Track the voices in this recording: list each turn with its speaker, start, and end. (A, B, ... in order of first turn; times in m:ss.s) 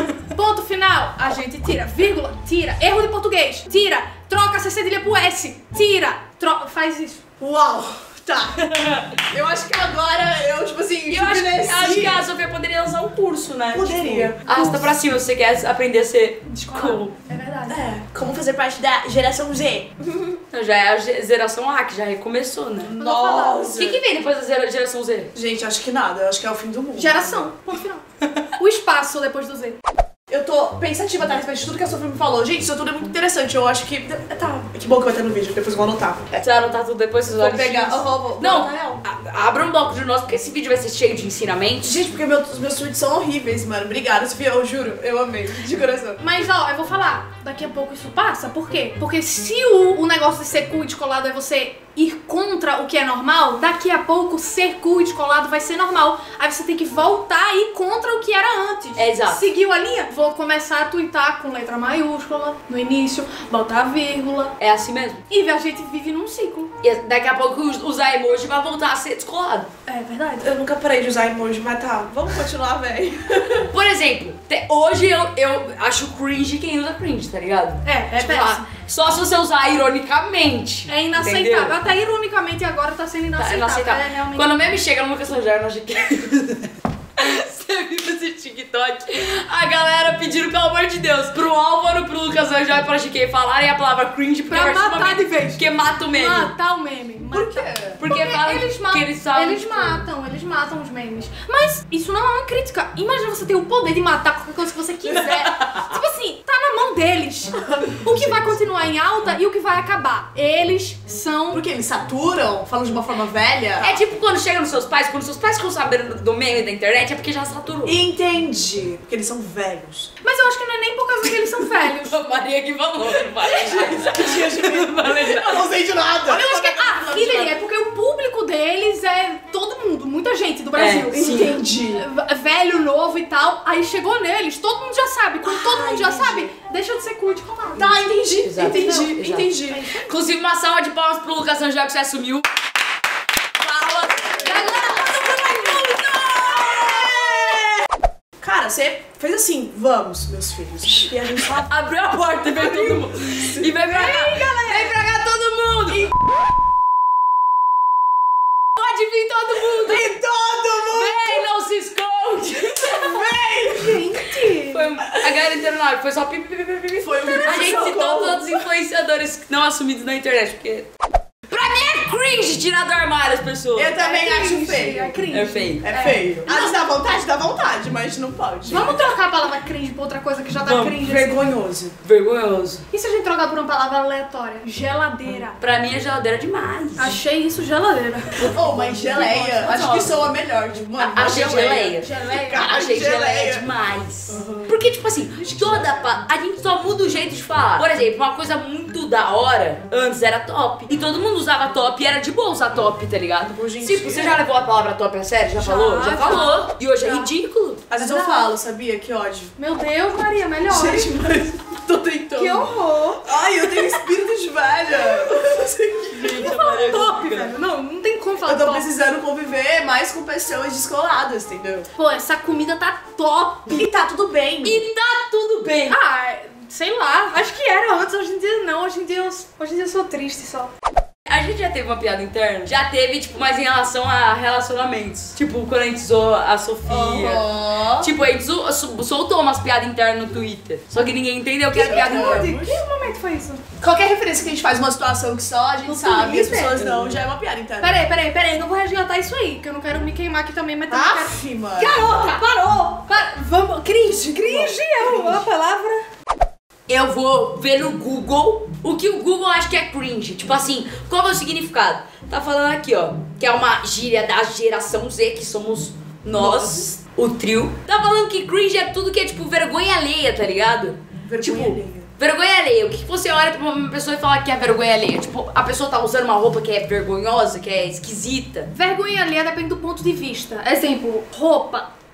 0:00.4-0:07.2 A
0:07.4-0:12.3 B
0:11.1-0:17.1 C
0:13.7-0:14.9 B
0:16.4-0:17.8 A
0:17.7-0:19.9 B
0:20.5-0:23.0 C
0:22.8-0:24.0 B
0:23.0-0:23.7 A
0:23.7-0:25.3 C
0:25.3-0:27.5 B
0:27.0-0:28.0 A
0:28.6-0:29.8 A
0:30.3-0:36.3 B
0:36.3-0:42.0 C
0:37.4-0:39.0 B
0:41.8-0:46.2 B
0:46.2-1:04.5 A
0:59.0-0:59.4 C
1:04.6-1:05.2 C
1:05.3-1:06.7 A
1:06.8-1:09.7 C
1:09.9-1:10.5 A
1:10.4-1:13.7 B
1:13.7-1:21.8 C
1:17.8-1:18.6 A
1:20.9-1:24.7 A
1:23.4-1:36.5 C
1:34.5-1:51.6 A
1:37.3-1:38.0 B
1:38.0-1:40.0 C
1:45.1-1:45.8 C
1:51.5-1:54.0 B
1:53.8-1:58.0 C
1:57.9-2:00.1 B
2:00.2-2:02.2 A
2:01.8-2:05.7 C
2:03.1-2:07.5 B
2:06.2-2:18.0 A
2:10.8-2:11.5 C
2:11.1-2:12.0 B
2:15.4-2:16.5 B
2:17.8-2:19.9 B
2:18.4-2:22.5 C
2:18.6-2:19.8 A
2:23.6-2:27.3 C
2:24.1-2:24.7 B
2:24.4-2:25.8 A
2:26.7-2:27.4 B
2:28.4-2:31.7 B
2:31.5-2:36.1 C
2:33.6-2:34.6 B
2:38.8-2:40.1 C
2:39.8-2:41.4 B
2:40.8-2:43.3 C
2:42.8-2:44.1 B
2:43.7-2:44.9 A
2:44.7-2:50.9 C
2:47.0-2:48.6 B
2:47.3-2:47.8 A
2:51.5-2:54.0 C
2:53.8-2:55.2 B
2:53.9-2:56.8 A
2:55.3-2:55.8 C
2:55.8-2:59.0 B
2:58.7-3:01.5 A
2:58.7-2:59.1 C
3:00.6-3:01.0 C
3:01.0-3:02.0 B
3:02.0-3:02.8 C
3:02.9-3:05.6 A
3:05.6-3:07.2 C
3:07.0-3:09.9 A
3:08.4-3:10.3 C
3:08.5-3:13.7 B
3:11.0-3:27.8 C
3:12.0-3:12.7 A
3:14.3-3:14.7 B
3:15.4-3:16.0 B
3:23.5-3:24.4 B
3:25.6-3:27.3 A
3:27.9-3:29.6 B
3:27.9-3:28.5 A
3:29.6-3:31.1 A
3:30.6-3:32.7 B
3:32.3-3:33.3 A
3:33.2-3:36.5 B
3:34.9-3:35.4 A
3:36.1-3:37.5 C
3:36.3-3:39.0 A
3:38.4-3:41.9 B
3:42.0-3:43.8 A
3:43.7-3:44.8 B
3:44.6-3:46.0 C
3:45.9-3:50.7 A
3:51.3-4:02.6 C
3:56.9-3:58.1 B
4:01.7-4:03.6 A
4:01.7-4:02.8 B
4:03.8-4:08.0 B
4:05.8-4:06.9 A
4:07.8-4:16.0 A
4:10.9-4:12.1 B
4:14.4-4:15.4 B
4:16.9-4:38.7 C
4:26.3-4:26.9 B
4:31.2-4:32.1 B
4:38.7-4:41.9 A